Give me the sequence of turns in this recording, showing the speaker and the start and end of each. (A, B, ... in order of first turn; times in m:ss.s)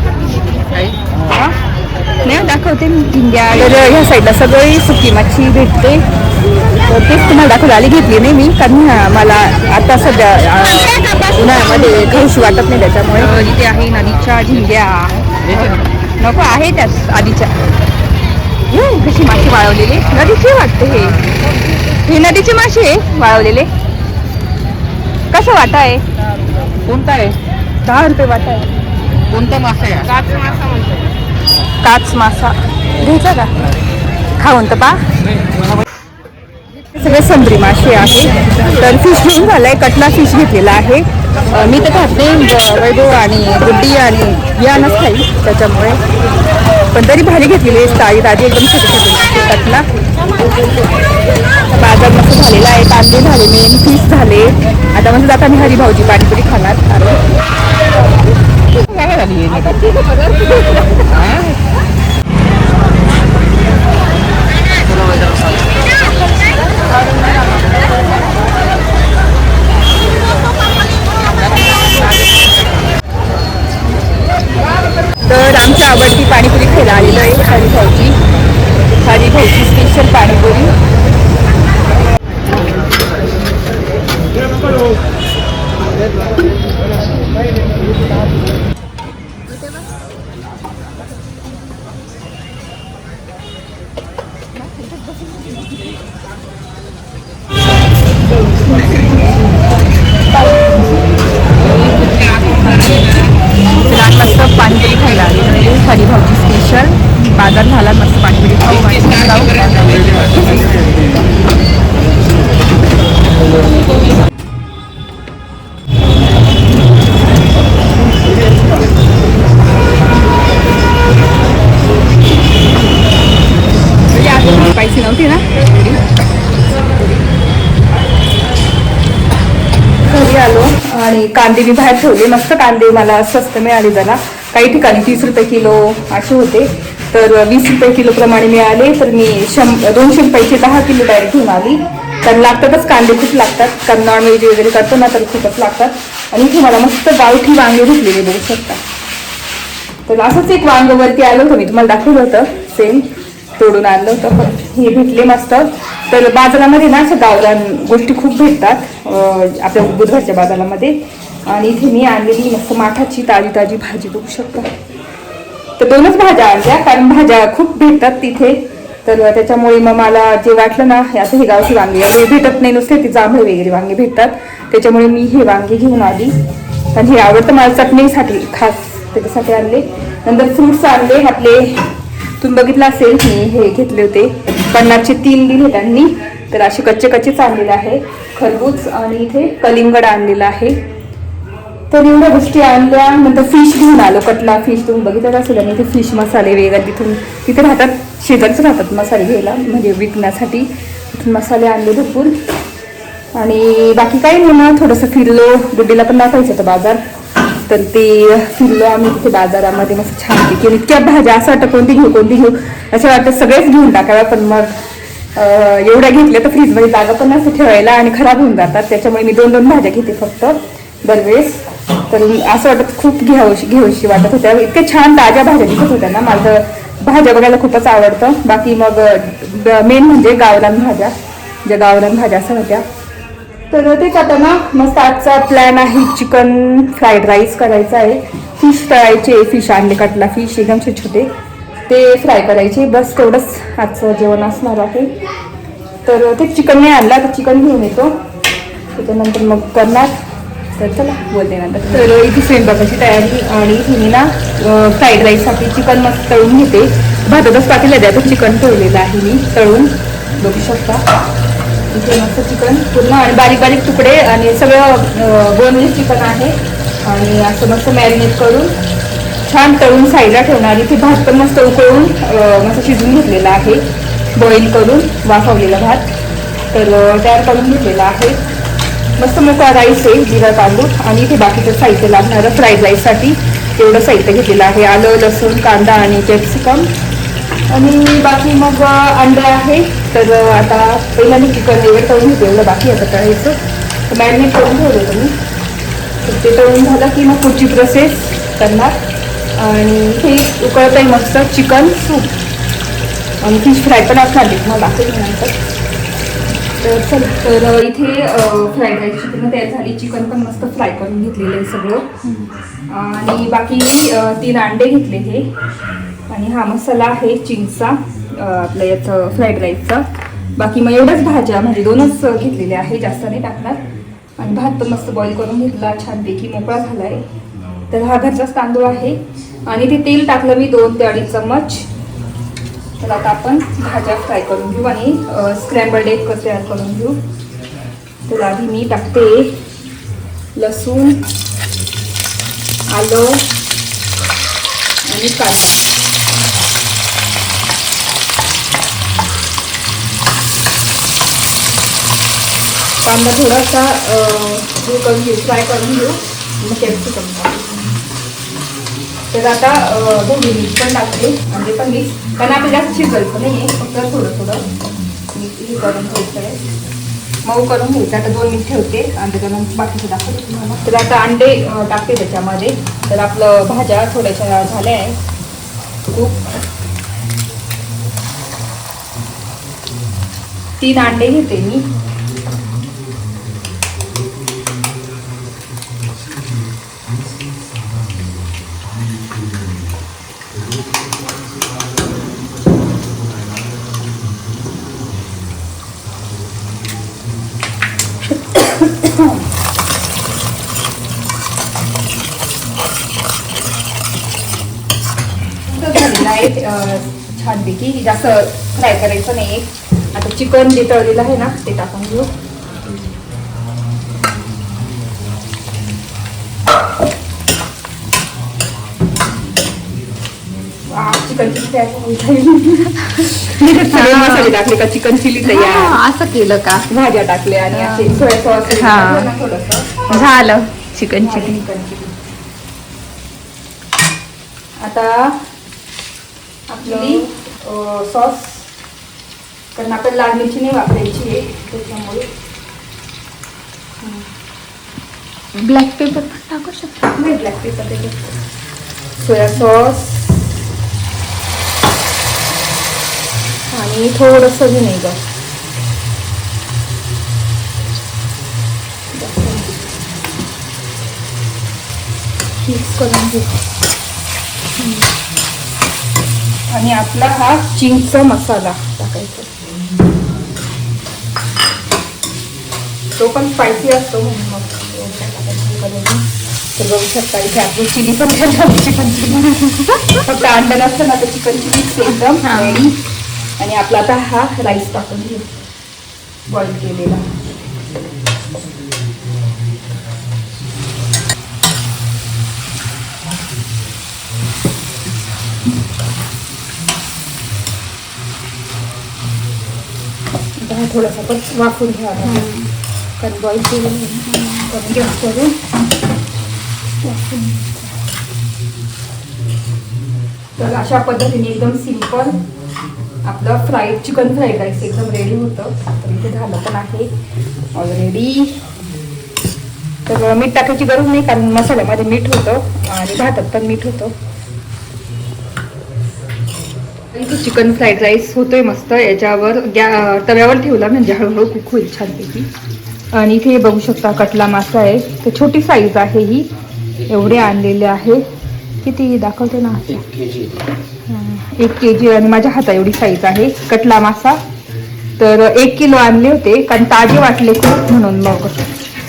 0:01.3-0:01.6 A
0:02.2-0:06.0 A
0:06.8-0:17.6 A
0:10.9-0:12.2 B
0:18.7-0:21.2 A
0:22.0-0:23.7 A
0:25.3-0:26.0 A
0:26.9-0:27.4 C
0:27.8-0:28.7 A
0:29.3-0:30.3 C
0:30.1-0:31.1 B
0:31.8-0:33.5 A
0:34.4-0:35.0 A
0:37.0-0:46.0 A
0:46.9-0:49.9 A
0:51.6-0:57.2 A
0:58.8-0:59.9 C
0:59.9-1:00.9 B
1:01.1-1:01.5 C
1:15.2-1:18.2 A
1:19.0-1:20.7 A
1:43.8-1:50.7 A
2:04.1-2:06.0 A
2:10.1-2:28.8 A
2:30.1-2:33.1 A
2:33.6-2:44.7 A
2:45.8-2:56.3 A
2:56.9-3:01.8 A
3:02.4-3:10.8 A
3:11.9-3:22.4 A
3:23.4-3:27.0 A
3:27.7-3:34.8 A
3:35.4-3:51.1 A
3:51.6-3:52.8 A
3:53.7-4:01.3 A
4:01.9-4:05.1 A
4:06.1-4:08.2 A
4:09.0-4:10.2 A
4:10.8-4:21.0 A
4:21.9-4:28.8 A
4:29.5-4:33.8 A
4:34.4-4:36.1 A
4:36.7-4:38.4 A
4:39.2-4:46.9 A
4:47.7-4:53.6 A
4:54.1-4:55.3 A
4:56.2-4:59.0 A
4:59.6-5:02.3 A
5:03.4-5:05.6 A
5:06.8-5:12.1 A
5:12.9-5:15.5 A
5:16.3-5:20.0 A
5:20.6-5:23.8 A
5:24.4-5:27.2 A
5:27.9-5:31.9 A
5:33.0-5:37.2 A
5:38.3-5:39.6 A
5:40.6-5:41.2 A
5:42.9-5:43.4 A
5:45.1-5:45.8 A
5:53.0-5:57.9 A
5:59.3-6:04.6 A
6:05.3-6:06.6 A
6:07.4-6:15.2 A
6:16.1-6:16.6 A
6:20.8-6:21.9 A
6:39.0-6:39.3 A
6:45.7-6:52.3 A
7:00.9-7:06.0 A
7:03.9-7:04.6 B
7:05.4-7:06.9 B
7:06.9-7:10.4 A
7:07.7-7:09.3 B
7:10.1-7:11.6 B
7:11.2-7:12.1 A
7:14.8-7:15.4 A
7:16.7-7:18.7 A
7:16.8-7:17.2 B
7:19.8-7:22.3 A
7:25.6-7:27.1 B
7:27.1-7:28.4 A
7:29.2-7:30.2 A
7:33.7-7:35.2 A
7:39.1-7:39.8 A
7:42.6-7:43.6 A
7:46.7-7:49.5 A
7:53.2-7:56.2 A
7:56.8-8:03.0 A
8:02.4-8:02.9 B
8:03.6-8:05.5 A
8:06.5-8:07.3 A
8:20.6-8:22.5 A
8:22.2-8:22.7 B
8:23.2-8:25.6 A
8:27.0-8:28.1 A
8:30.6-8:32.4 A
8:33.2-8:37.1 A
8:37.7-8:38.6 A
8:40.1-8:44.2 A
8:47.1-8:52.5 A
8:53.1-8:56.5 A
8:57.1-8:58.2 A
8:58.8-9:00.0 A
8:59.9-9:00.6 C
9:01.1-9:04.4 A
9:05.2-9:08.6 A